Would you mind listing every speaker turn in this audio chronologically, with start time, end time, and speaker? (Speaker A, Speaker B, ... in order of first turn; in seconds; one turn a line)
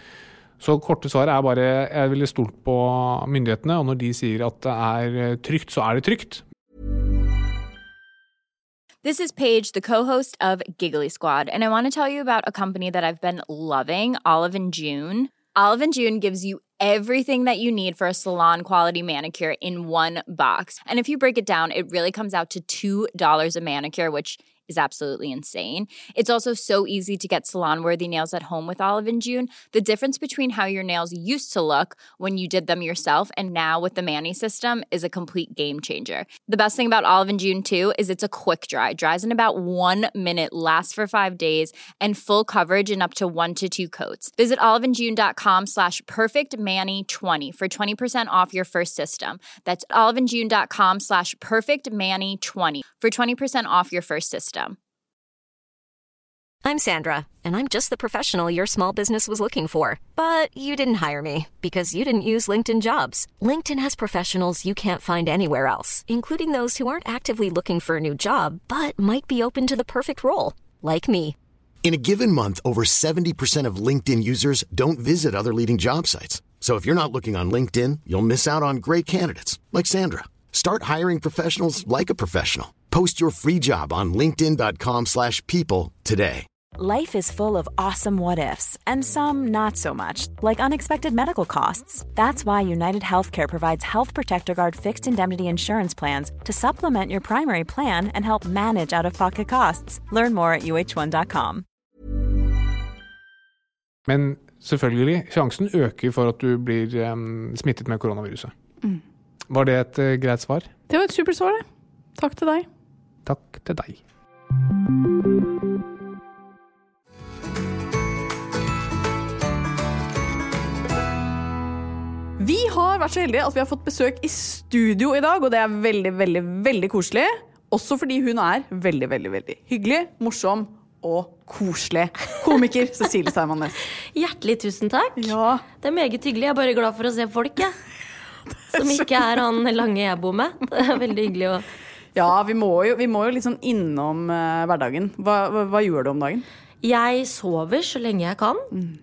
Speaker A: 0.6-6.4
Speaker B: 9.0-54.8
Speaker C: 56.6-71.3
Speaker D: 71.8-86.4
Speaker E: 86.8-101.6
Speaker A: 104.1-108.5
Speaker A: 109.5-110.7
Speaker F: 110.9-111.6
Speaker F: 112.2-112.7
Speaker A: 113.2-114.0
Speaker F: 122.4-133.8
Speaker G: 134.1-137.7
Speaker F: 135.2-135.6
Speaker G: 138.7-141.6
Speaker F: 142.1-146.4
Speaker G: 146.8-148.7